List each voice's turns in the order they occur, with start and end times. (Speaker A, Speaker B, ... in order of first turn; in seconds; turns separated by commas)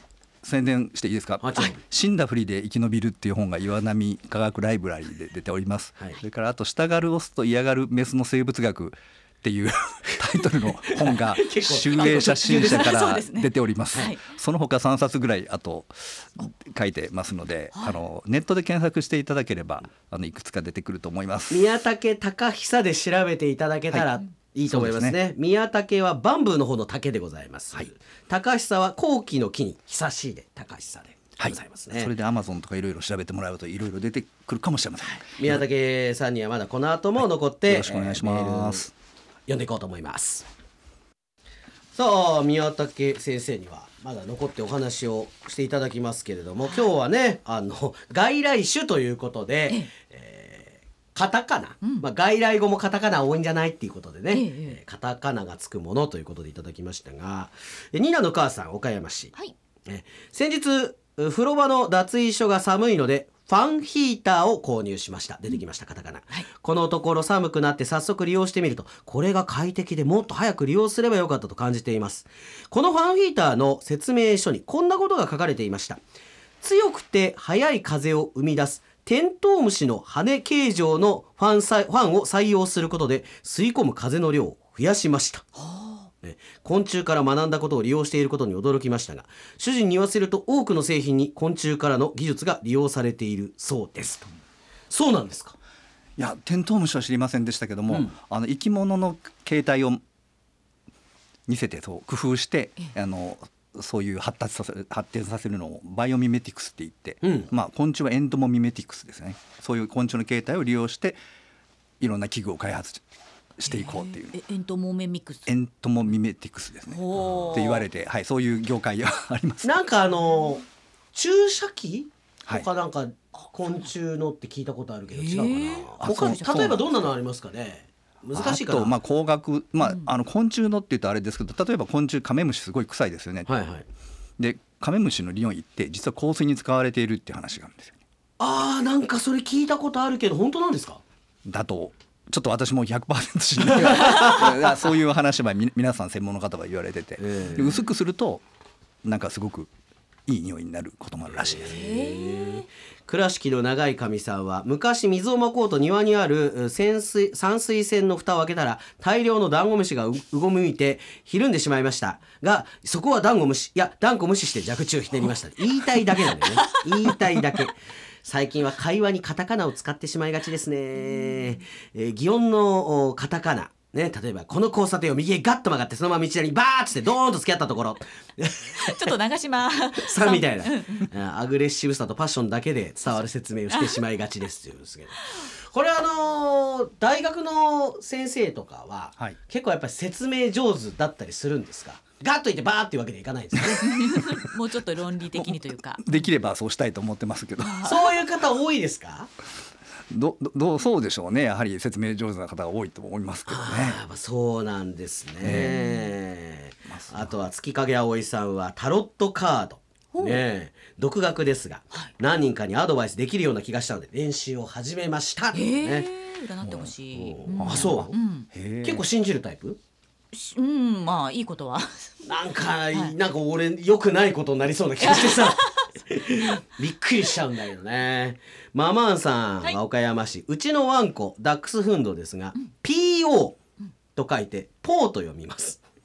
Speaker A: 0.4-21.6, Speaker B: 1.4-1.8, Speaker B: 10.9-12.9, Speaker C: 11.9-14.2, Speaker B: 21.5-32.1, Speaker A: 24.7-25.2, Speaker A: 31.4-35.6, Speaker B: 35.2-38.9, Speaker A: 37.7-38.9, Speaker B: 39.5-40.5, Speaker B: 41.9-59.3, Speaker C: 54.3-54.8, Speaker B: 59.9-76.0, Speaker B: 76.6-85.5, Speaker C: 85.7-86.0, Speaker B: 86.2-94.3, Speaker B: 94.9-95.5, Speaker A: 96.2-100.0, Speaker A: 101.5-111.2, Speaker B: 107.2-107.5, Speaker A: 112.0-113.0, Speaker A: 113.6-114.3, Speaker C: 113.7-115.5, Speaker A: 115.5-119.8, Speaker C: 116.9-117.8, Speaker B: 119.6-129.0, Speaker C: 125.1-126.8, Speaker A: 126.0-126.8, Speaker A: 128.3-133.5, Speaker C: 129.8-130.1, Speaker B: 133.4-133.8, Speaker A: 134.4-138.0, Speaker B: 138.4-141.0, Speaker A: 141.4-148.4, Speaker B: 143.9-144.4, Speaker B: 147.2-147.7, Speaker A: 149.0-149.7, Speaker A: 150.3-151.8, Speaker B: 151.3-179.1, Speaker C: 151.7-152.7, Speaker C: 178.8-181.0, Speaker B: 180.0-194.0, Speaker C: 183.2-184.0, Speaker C: 193.8-196.1, Speaker A: 195.3-197.8, Speaker C: 197.6-198.1, Speaker B: 197.8-199.3, Speaker A: 200.1-204.0, Speaker B: 203.5-216.1, Speaker A: 205.4-205.8, Speaker C: 205.4-206.1, Speaker A: 206.8-207.3, Speaker C: 210.1-210.4, Speaker C: 215.5-218.5, Speaker A: 216.6-216.9, Speaker B: 217.1-218.1, Speaker A: 217.6-219.0, Speaker B: 218.8-219.8, Speaker C: 220.3-222.2, Speaker B: 222.2-233.6, Speaker C: 225.0-225.9, Speaker B: 234.1-235.8